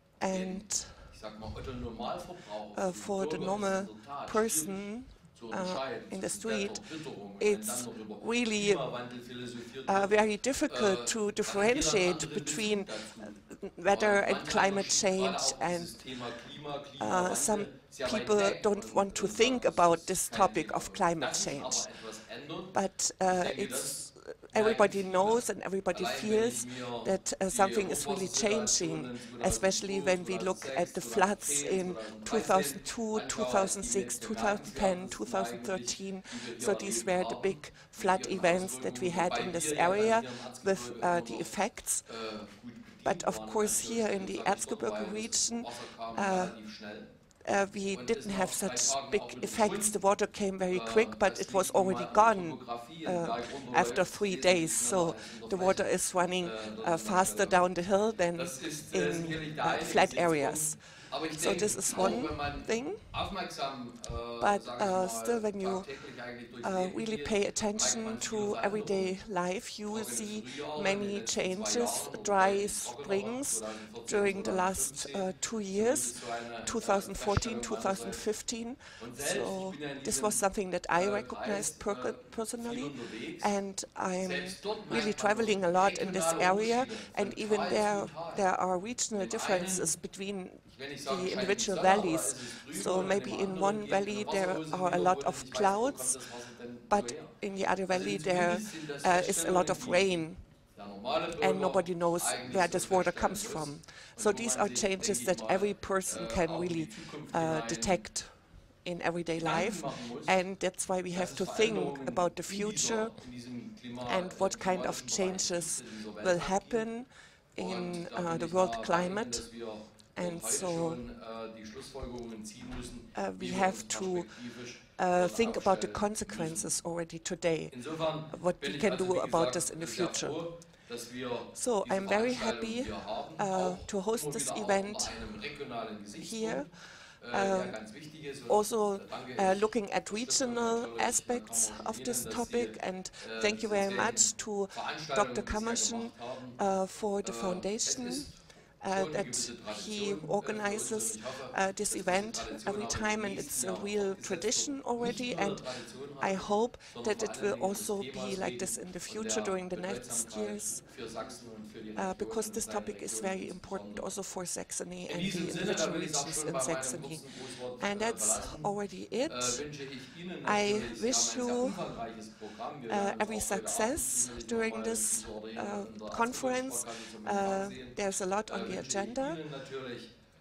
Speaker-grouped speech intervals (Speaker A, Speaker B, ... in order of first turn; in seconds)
Speaker A: 0.2-1.1, 2.7-9.1, 9.8-16.5, 17.0-21.9, 22.7-42.1, 43.0-46.6, 47.4-63.0, 64.4-65.9, 66.6-100.5, 101.4-113.2, 114.0-121.0, 123.1-130.5, 131.5-135.5, 136.2-160.9, 161.9-172.2, 172.9-179.4
Speaker B: 0.2-47.1, 47.8-50.0, 50.7-69.2, 69.8-78.3, 79.0-88.5, 89.1-90.0, 90.6-108.1, 109.4-110.5, 111.0-116.9, 117.6-126.8, 127.7-146.6, 147.2-164.1, 165.0-180.1